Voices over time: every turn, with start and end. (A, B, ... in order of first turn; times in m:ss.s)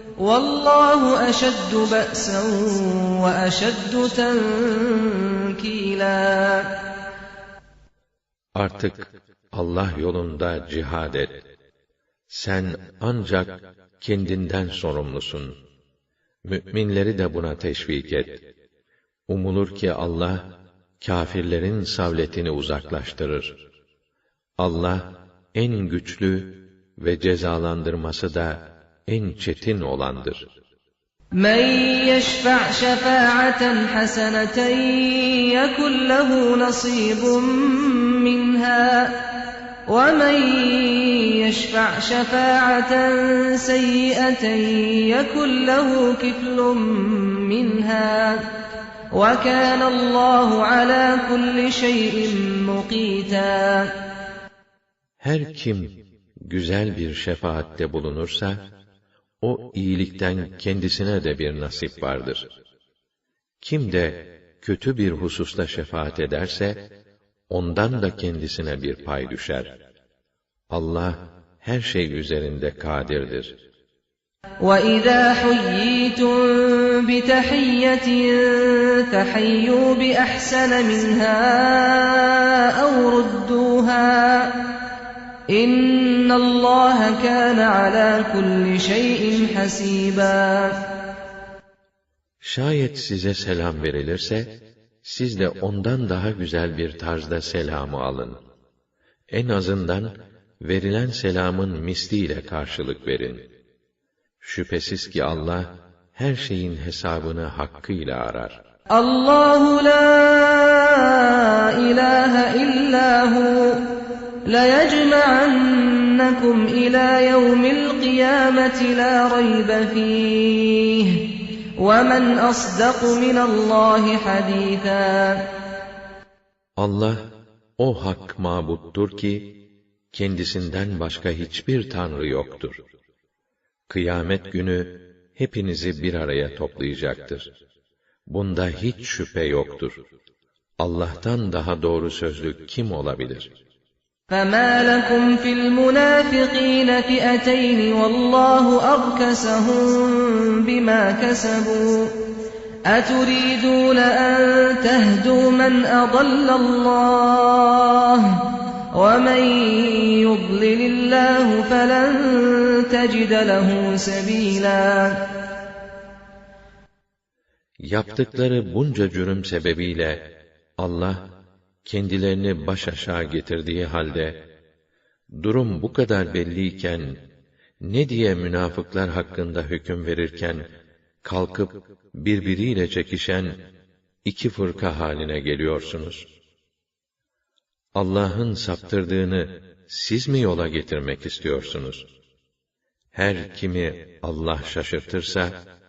0:00.2-0:06.7 A
0:08.6-0:11.3 B
0:12.3-0:15.5 B
0:16.5-0:18.4 B
0:19.3-0:20.4 B
0:21.0-0:23.6 B
0:24.6-0:25.0 B
0:25.5-0:30.4 B
0:31.3-0:39.2 A
0:39.9-0:48.4 A
0:49.1-0:53.9 A
0:55.2-0:58.6 B
0:59.4-1:02.4 B
1:03.6-1:06.8 B
1:07.5-1:09.7 B
1:10.7-1:13.6 B
1:14.6-1:24.6 A
1:25.5-1:30.8 A
1:32.4-1:38.4 B
1:39.3-1:43.4 B
1:44.4-1:48.6 B
1:48.9-1:53.8 A
1:54.4-2:05.4 A
2:06.8-2:07.2 B
2:07.8-2:09.5 B
2:10.1-2:12.8 B
2:13.9-2:17.5 B
2:18.3-2:20.0 B
2:20.8-2:23.5 B
2:24.3-2:32.1 A
2:32.8-2:45.2 A
2:47.8-2:50.2 B
2:50.8-2:51.2 B
2:51.8-2:54.4 B
2:55.4-2:57.1 B
2:57.8-3:00.6 B
3:01.2-3:03.6 B
3:04.2-3:06.3 B
3:07.9-3:12.1 B
3:13.1-3:15.6 B